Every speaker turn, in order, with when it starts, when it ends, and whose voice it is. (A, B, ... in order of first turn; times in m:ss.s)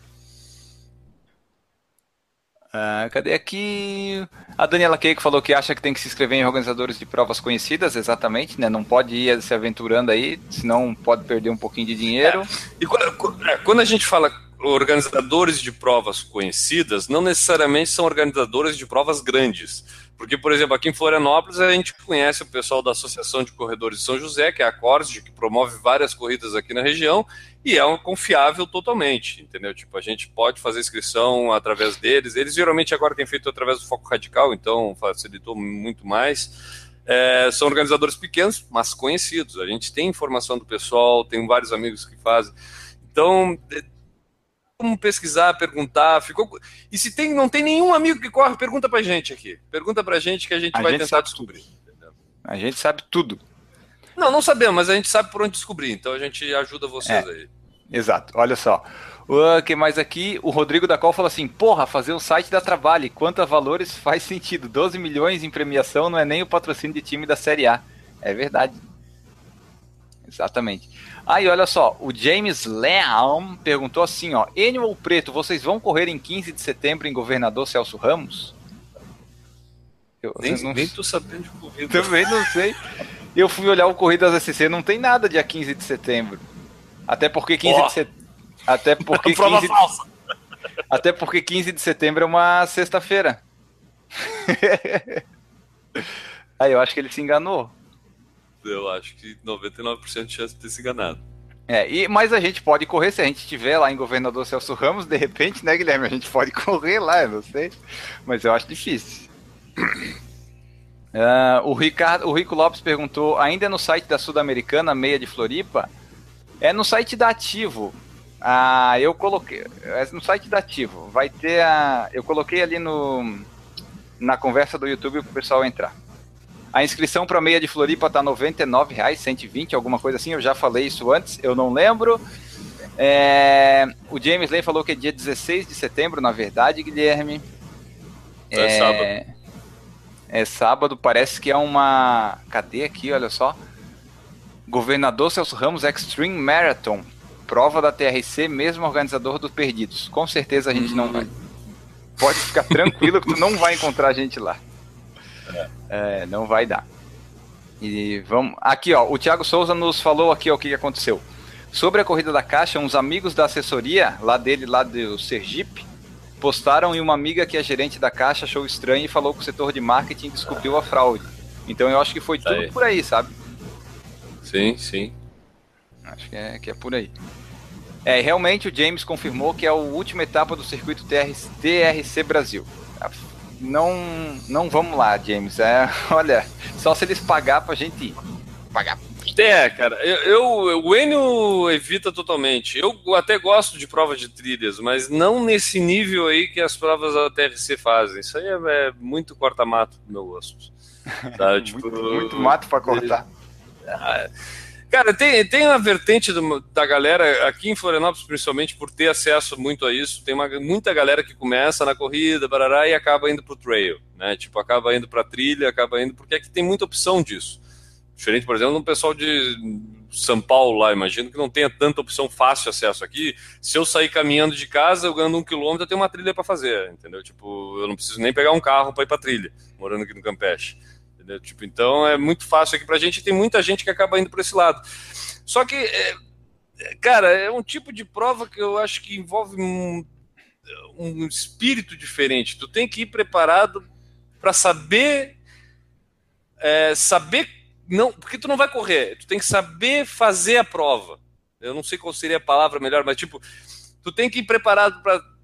0:02.7-0:12.5 A
0:12.2-0:36.5 B
0:37.1-0:42.5 B
0:43.0-0:43.9 B
0:44.8-0:52.1 B
0:50.7-0:51.6 A
0:52.4-0:53.4 A
0:54.2-0:57.5 B
0:57.9-1:08.8 A
1:10.2-1:18.5 A
1:20.2-1:20.9 A
1:20.4-1:22.5 B
1:21.9-1:22.8 A
1:23.4-1:26.4 A
1:27.1-1:28.1 A
1:27.6-1:28.0 B
1:28.7-1:29.8 A
1:29.0-1:30.1 B
1:30.9-1:33.4 A
1:34.2-1:35.2 A
1:36.6-1:37.7 A
1:38.6-1:41.2 B
1:41.7-1:47.7 A
1:48.3-1:49.3 A
1:51.1-1:55.9 A
1:56.6-2:03.5 A
2:04.2-2:05.9 A
2:06.7-2:12.2 A
2:13.0-2:17.4 A
2:18.5-2:19.3 A
2:18.5-2:19.1 B
2:20.3-2:23.6 A
2:24.7-2:31.3 A
2:30.7-2:31.3 B
2:32.2-2:34.6 A
2:35.9-2:36.9 A
2:37.8-2:45.9 A
2:46.4-2:53.3 A
2:52.4-2:52.7 B
2:54.4-2:55.1 B
2:56.1-2:57.1 A
2:58.1-3:08.2 A
3:08.7-3:09.0 A
3:09.3-3:20.7 B
3:21.2-3:23.3 A
3:21.4-3:23.2 B
3:23.8-3:24.3 B
3:24.9-3:37.6 B
3:38.2-3:54.8 B
3:55.5-3:56.2 B
3:56.8-4:00.1 B
4:00.9-4:03.8 B
4:04.4-4:05.4 B
4:06.6-4:13.4 B
4:14.0-4:15.2 B